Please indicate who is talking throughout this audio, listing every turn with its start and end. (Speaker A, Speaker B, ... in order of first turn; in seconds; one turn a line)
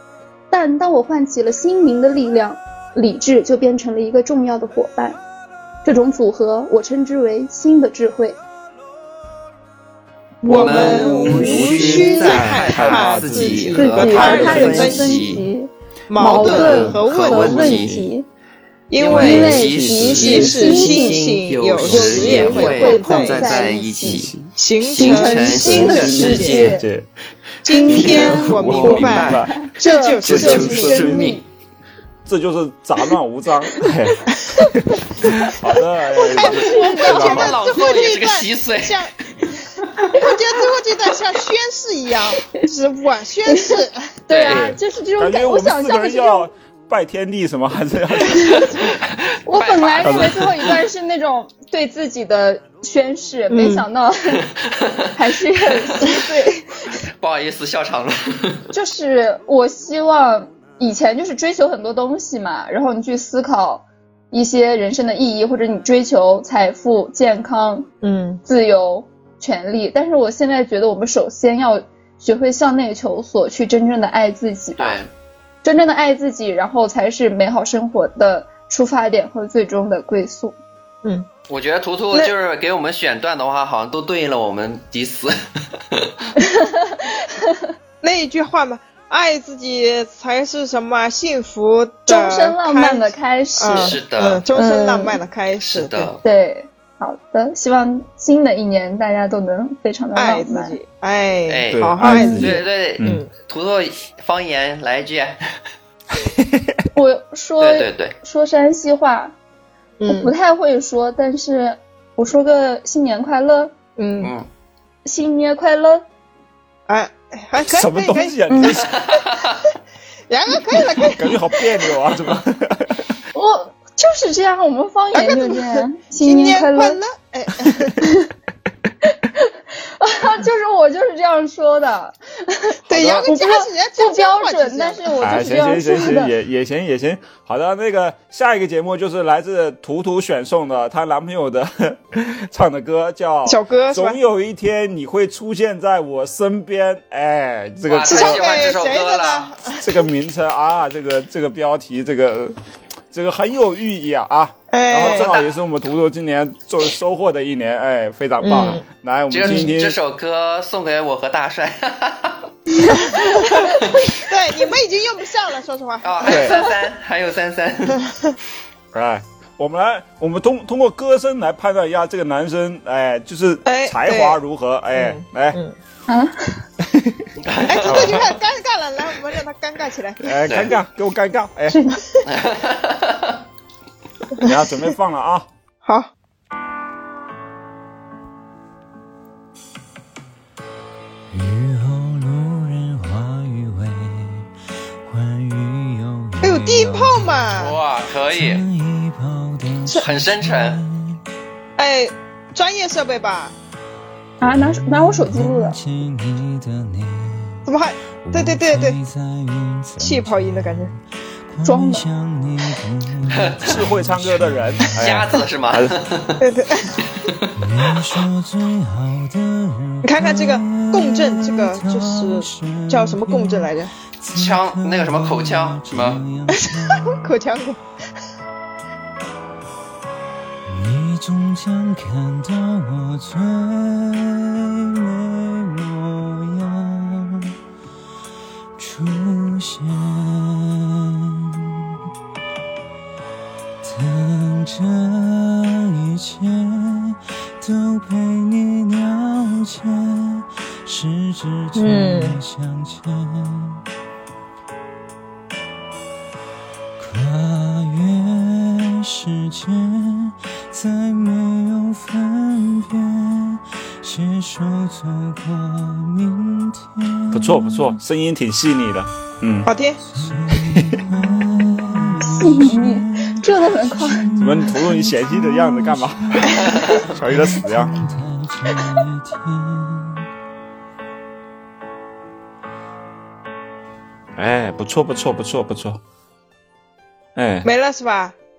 Speaker A: 0.5-5.2
Speaker A: 5.8-8.4
Speaker B: 10.4-15.4
Speaker C: 10.5-15.5
Speaker A: 10.5-12.4
Speaker D: 11.2-14.9
Speaker A: 13.7-18.2
Speaker B: 16.1-17.8
Speaker D: 16.2-18.1
Speaker C: 16.5-18.0
Speaker B: 18.9-23.7
Speaker C: 19.0-24.4
Speaker A: 19.0-24.3
Speaker D: 19.2-20.6
Speaker B: 24.5-26.6
Speaker A: 24.8-26.8
Speaker C: 24.9-26.8
Speaker D: 25.6-27.1
Speaker B: 27.6-31.2
Speaker A: 27.7-31.4
Speaker D: 27.9-29.7
Speaker C: 28.6-29.4
Speaker D: 30.2-31.4
Speaker C: 30.4-31.3
Speaker D: 32.2-34.2
Speaker D: 35.2-37.5
Speaker A: 36.1-37.4
Speaker B: 36.2-39.1
Speaker C: 37.1-39.0
Speaker B: 40.1-44.1
Speaker A: 43.5-46.5
Speaker C: 44.3-44.6
Speaker D: 44.5-48.7
Speaker A: 49.4-54.4
Speaker C: 49.5-50.4
Speaker D: 50.0-50.7
Speaker B: 53.5-53.8
Speaker A: 55.1-56.7
Speaker C: 57.2-58.6
Speaker A: 58.7-67.9
Speaker B: 68.0-68.4
Speaker A: 68.5-75.0
Speaker C: 74.8-75.1
Speaker A: 75.6-80.6
Speaker B: 81.0-81.3
Speaker C: 81.5-85.4
Speaker A: 86.5-87.2
Speaker B: 88.0-96.1
Speaker A: 92.1-95.2
Speaker C: 93.7-94.4
Speaker C: 95.6-96.2
Speaker A: 96.2-100.8
Speaker B: 100.1-103.3
Speaker C: 101.5-105.4
Speaker D: 101.7-103.2
Speaker A: 106.9-109.3
Speaker C: 107.6-108.2
Speaker B: 110.0-110.3
Speaker A: 110.1-113.8
Speaker B: 114.0-114.3
Speaker C: 114.2-114.5
Speaker A: 115.0-116.0
Speaker B: 116.9-118.4
Speaker D: 117.7-119.0
Speaker A: 118.5-118.8
Speaker C: 119.1-119.5
Speaker B: 120.3-121.3
Speaker D: 121.2-123.0
Speaker A: 123.3-127.0
Speaker B: 125.1-128.0
Speaker A: 130.0-136.3
Speaker B: 132.9-135.5
Speaker D: 132.9-133.3
Speaker D: 135.2-148.4
Speaker B: 143.4-144.2
Speaker C: 147.9-149.5
Speaker B: 148.1-150.0
Speaker D: 149.8-152.5
Speaker D: 153.1-160.0
Speaker B: 154.7-155.4
Speaker C: 155.0-155.5
Speaker B: 158.4-158.8
Speaker C: 159.3-162.4
Speaker B: 163.2-163.4
Speaker C: 163.8-164.1
Speaker B: 164.2-166.5
Speaker C: 166.0-168.0
Speaker D: 166.2-166.6
Speaker D: 168.9-175.6
Speaker B: 173.6-174.4
Speaker B: 174.9-175.8
Speaker A: 176.1-176.6
Speaker D: 176.8-177.3
Speaker C: 177.4-178.3
Speaker B: 177.7-180.2
Speaker D: 177.9-178.2
Speaker D: 180.2-181.8
Speaker C: 180.4-180.7
Speaker A: 181.7-182.0
Speaker C: 182.3-183.3
Speaker D: 184.4-185.5
Speaker B: 185.8-186.1
Speaker E: 191.3-194.5
Speaker E: 195.0-197.6
Speaker B: 196.4-197.8
Speaker C: 197.5-198.6
Speaker E: 198.3-201.2
Speaker C: 200.0-200.8
Speaker B: 201.8-203.5
Speaker E: 204.4-207.7
Speaker A: 204.4-205.8
Speaker B: 207.7-209.0
Speaker E: 208.2-215.0
Speaker B: 210.0-210.9
Speaker A: 211.6-212.1
Speaker C: 213.3-213.8
Speaker D: 213.6-216.0
Speaker C: 215.0-216.4
Speaker B: 216.4-216.9
Speaker E: 217.6-227.3
Speaker B: 220.0-223.9
Speaker C: 224.3-226.2
Speaker B: 226.7-227.8
Speaker E: 230.7-237.5
Speaker E: 238.8-241.7
Speaker E: 243.8-253.8
Speaker B: 251.8-252.4
Speaker E: 257.0-268.0
Speaker D: 267.3-269.7
Speaker B: 269.6-270.0
Speaker E: 270.1-280.2
Speaker D: 270.6-271.0
Speaker A: 272.3-274.2
Speaker D: 274.4-277.9
Speaker D: 284.4-286.0
Speaker D: 287.4-287.7
Speaker B: 287.6-288.4